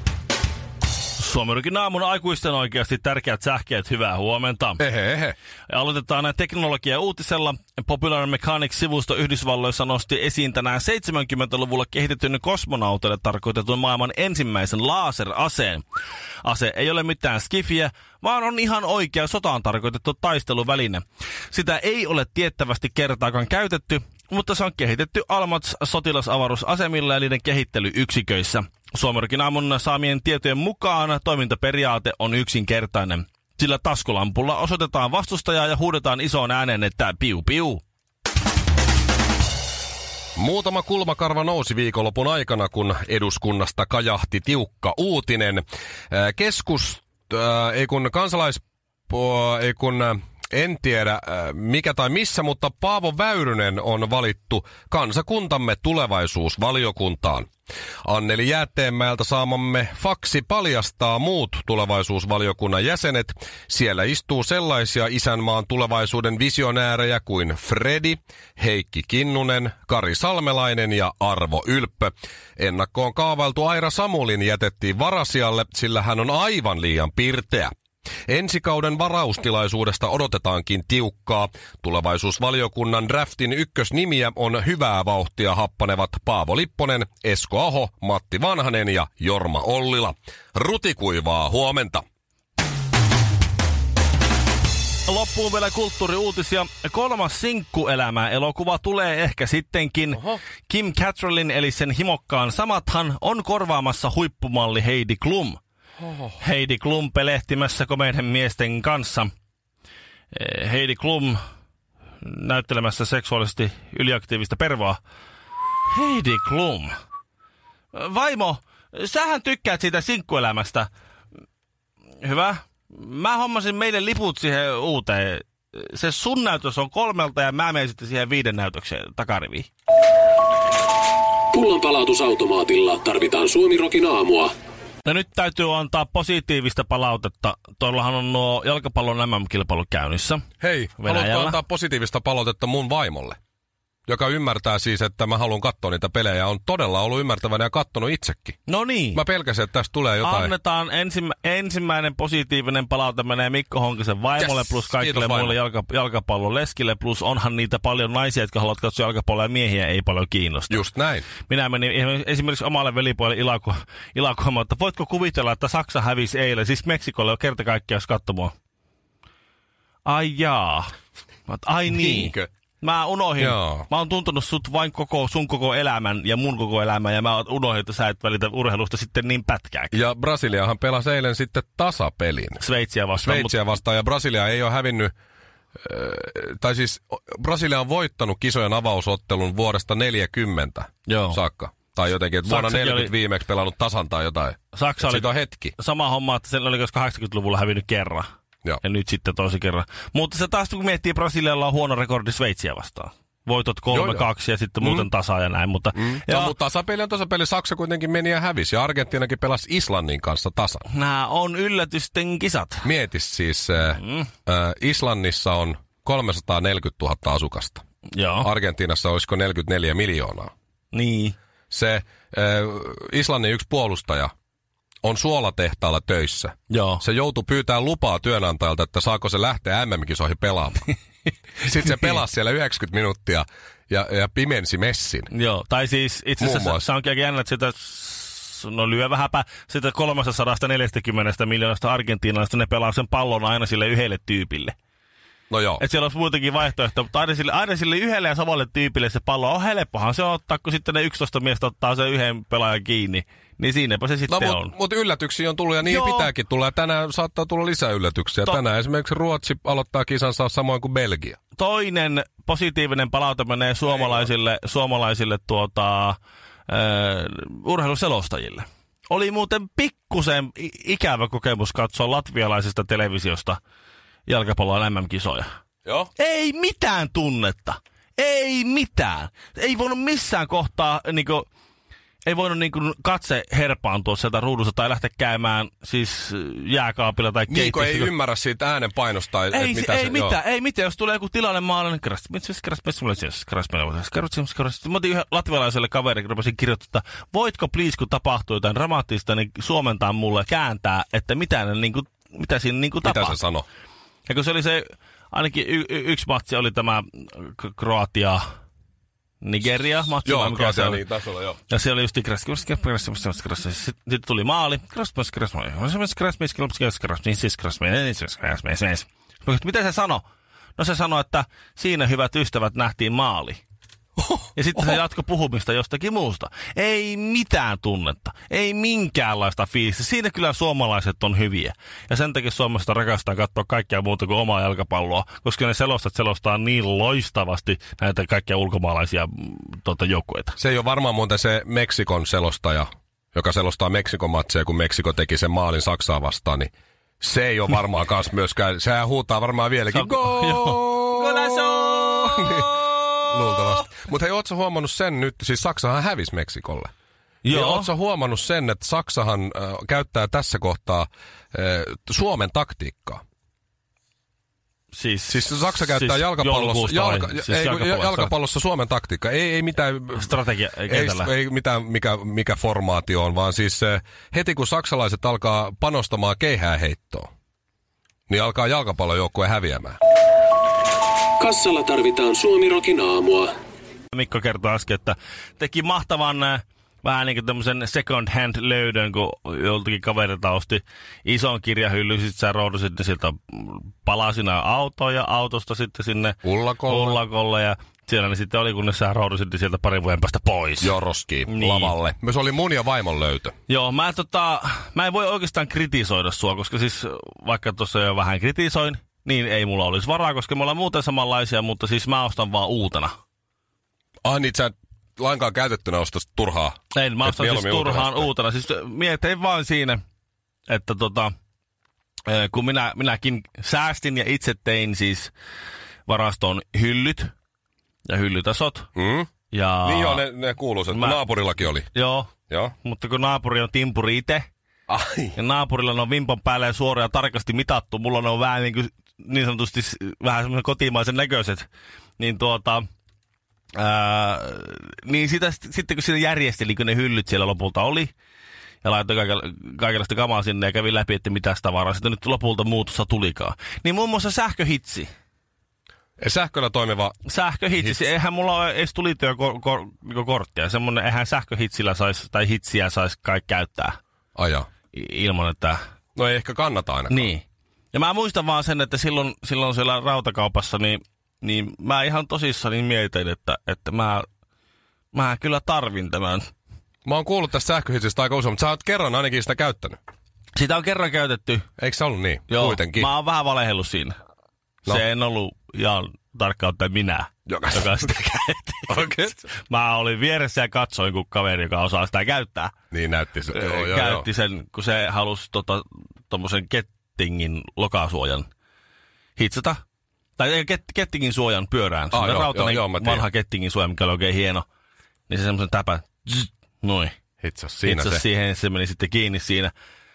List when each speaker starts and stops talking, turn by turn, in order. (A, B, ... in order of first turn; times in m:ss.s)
0:01.2-0:04.8 A
0:04.8-0:05.4 B
0:05.7-0:15.8 A
0:16.4-0:37.8 A
0:40.4-0:57.5 B
0:58.0-1:17.7 B
1:18.3-1:32.0 B
1:35.1-1:45.6 A
1:40.1-1:40.4 B
1:46.0-1:46.4 B
1:46.4-1:49.3 A
1:50.3-1:51.4 A
1:52.2-1:55.0 A
1:55.9-1:56.9 A
1:57.9-2:00.9 A
2:02.2-2:09.7 A
2:11.6-2:14.5 C
2:15.0-2:20.4 A
2:20.6-2:23.4 B
2:21.0-2:21.6 A
2:24.1-2:28.6 B
2:28.7-2:29.2 A
2:29.1-2:30.5 B
2:30.2-2:40.8 A
2:34.4-2:35.6 B
2:40.7-2:41.3 B
2:41.4-2:48.5 A
2:50.0-2:50.9 A
2:51.5-2:59.9 A
2:51.9-2:52.5 B
2:53.4-2:53.9 B
2:59.9-3:02.6 B
3:02.6-3:03.6 A
3:03.2-3:05.1 B
3:05.8-3:15.7 B
3:11.1-3:11.4 A
3:12.4-3:13.1 A
3:14.7-3:18.3 A
3:18.8-3:26.5 A
3:23.9-3:24.3 B
3:24.8-3:25.1 B
3:25.9-3:30.8 B
3:30.9-3:32.8 A
3:32.8-3:37.8 B
3:33.8-3:34.3 A
3:38.1-3:38.5 A
3:38.4-3:40.5 B
3:40.9-3:41.3 A
3:41.7-3:44.3 B
3:45.0-3:50.9 B
3:46.7-3:47.0 A
3:51.6-3:55.3 B
3:55.3-4:04.7 A
3:56.4-3:56.8 B
4:05.5-4:05.8 B
4:05.8-4:14.7 A
4:14.3-4:21.4 B
4:15.8-4:16.3 A
4:21.6-4:26.2 A
4:23.9-4:24.3 B
4:26.7-4:33.6 A
4:34.3-4:35.5 A
4:35.8-4:36.1 B
4:36.2-4:41.5 A
4:42.2-4:48.1 A
4:47.5-4:50.4 B
4:49.5-5:03.4 A
5:03.0-5:03.6 B
5:04.3-5:08.4 A
5:09.4-5:11.0 A
5:10.2-5:11.6 B
5:11.7-5:20.2 A
5:20.8-5:23.6 A
5:24.2-5:25.0 B
5:24.5-5:40.6 A
5:40.6-5:46.7 B
5:47.2-5:52.7 B
5:49.9-5:53.8 A
5:53.3-5:56.9 B
5:57.4-5:57.9 A
5:57.5-6:03.2 B
6:04.9-6:08.3 A
6:05.3-6:17.3 B
6:10.1-6:11.3 A
6:18.3-6:20.0 B
6:21.4-6:21.7 C
6:22.4-6:23.4 C
6:24.1-6:40.9 A
6:36.4-6:37.2 B
6:40.8-6:43.6 B
6:41.5-6:41.9 A
6:43.7-6:53.1 A
6:54.2-6:58.3 B
6:56.9-7:00.0 A
7:00.7-7:01.3 A
7:02.3-7:05.3 A
7:06.1-7:07.3 A
7:08.1-7:08.9 A
7:09.0-7:09.3 B
7:09.5-7:10.2 A
7:09.8-7:11.9 B
7:10.9-7:11.2 A
7:11.9-7:12.3 A
7:12.8-7:14.5 A
7:14.9-7:15.4 B
7:15.4-7:21.7 A
7:22.2-7:22.8 A
7:23.8-7:28.1 A
7:28.8-7:35.1 A
7:36.2-7:37.1 B
7:37.3-7:44.0 A
7:37.8-7:38.1 B
7:44.4-7:44.7 B
7:44.9-7:45.8 A
7:46.2-7:47.3 B
7:47.1-7:54.2 A
7:55.1-7:56.5 A
7:57.0-8:00.0 B
8:00.6-8:01.6 A
8:01.8-8:03.1 B
8:02.5-8:04.1 A
8:04.8-8:12.7 A
8:07.5-8:08.1 B
8:08.9-8:09.4 B
8:12.9-8:14.2 B
8:13.5-8:18.5 A
8:19.4-8:19.8 A
8:20.4-8:24.6 A
8:22.1-8:23.3 B
8:25.3-8:27.1 A
8:27.4-8:28.2 B
8:27.8-8:29.7 A